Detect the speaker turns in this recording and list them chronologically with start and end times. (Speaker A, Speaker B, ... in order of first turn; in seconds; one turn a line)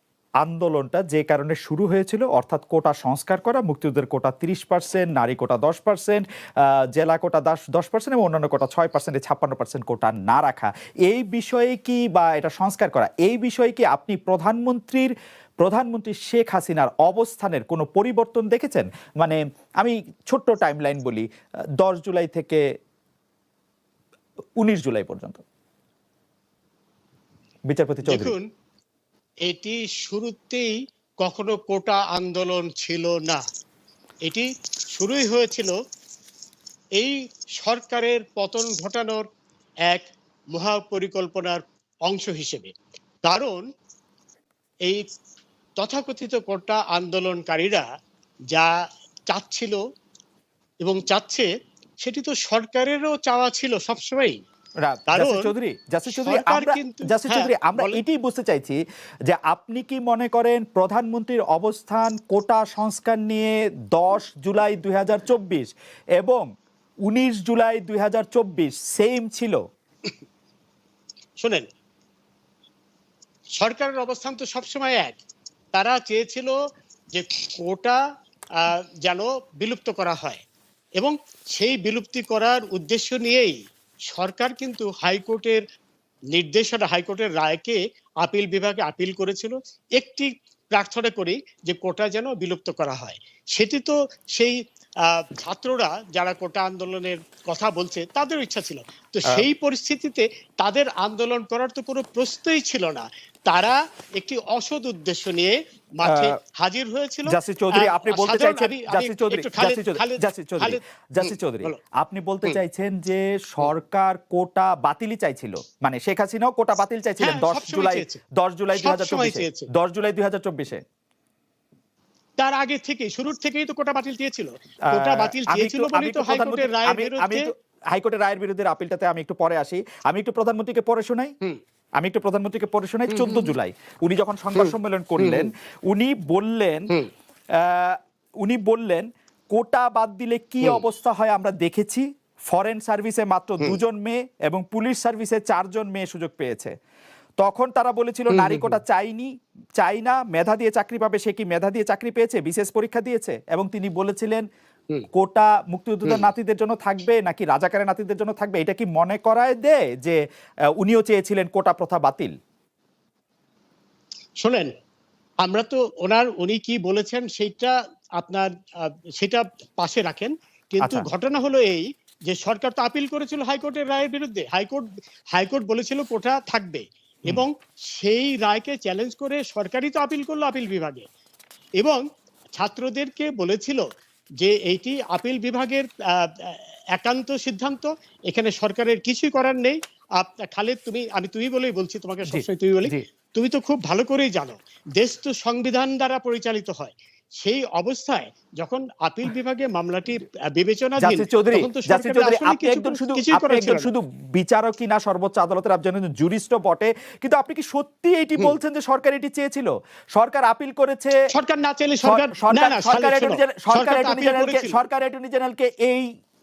Speaker A: 0.4-21.2
Speaker A: 21.8-22.6
Speaker A: 24.6-25.4
Speaker A: 27.7-28.3
Speaker B: 28.1-28.4
Speaker B: 29.4-33.4
Speaker B: 34.2-35.8
Speaker B: 37.0-39.3
Speaker B: 39.9-42.7
Speaker B: 43.2-43.6
Speaker B: 45.8-47.9
Speaker B: 49.3-49.8
Speaker B: 50.8-51.5
Speaker B: 52.0-54.4
Speaker A: 54.8-66.5
Speaker B: 55.1-55.5
Speaker B: 56.1-58.0
Speaker A: 67.1-69.6
Speaker B: 71.4-71.7
Speaker B: 73.6-75.2
Speaker B: 75.7-76.5
Speaker B: 77.1-78.0
Speaker B: 78.6-80.4
Speaker B: 81.0-83.6
Speaker B: 84.1-85.6
Speaker B: 86.3-111.8
Speaker A: 106.1-106.3
Speaker A: 107.3-120.8
Speaker B: 117.2-118.2
Speaker B: 118.8-119.7
Speaker B: 122.4-127.4
Speaker A: 124.9-131.3
Speaker A: 132.0-136.8
Speaker B: 133.1-133.5
Speaker B: 134.6-135.5
Speaker A: 137.6-146.7
Speaker A: 147.4-154.4
Speaker B: 148.3-148.8
Speaker A: 155.1-160.2
Speaker A: 160.8-162.3
Speaker B: 164.4-164.7
Speaker B: 165.4-181.1
Speaker A: 170.8-171.1
Speaker B: 182.6-183.8
Speaker B: 184.4-203.9
Speaker A: 192.3-193.0
Speaker A: 201.0-211.2
Speaker B: 211.3-214.8
Speaker A: 212.1-216.1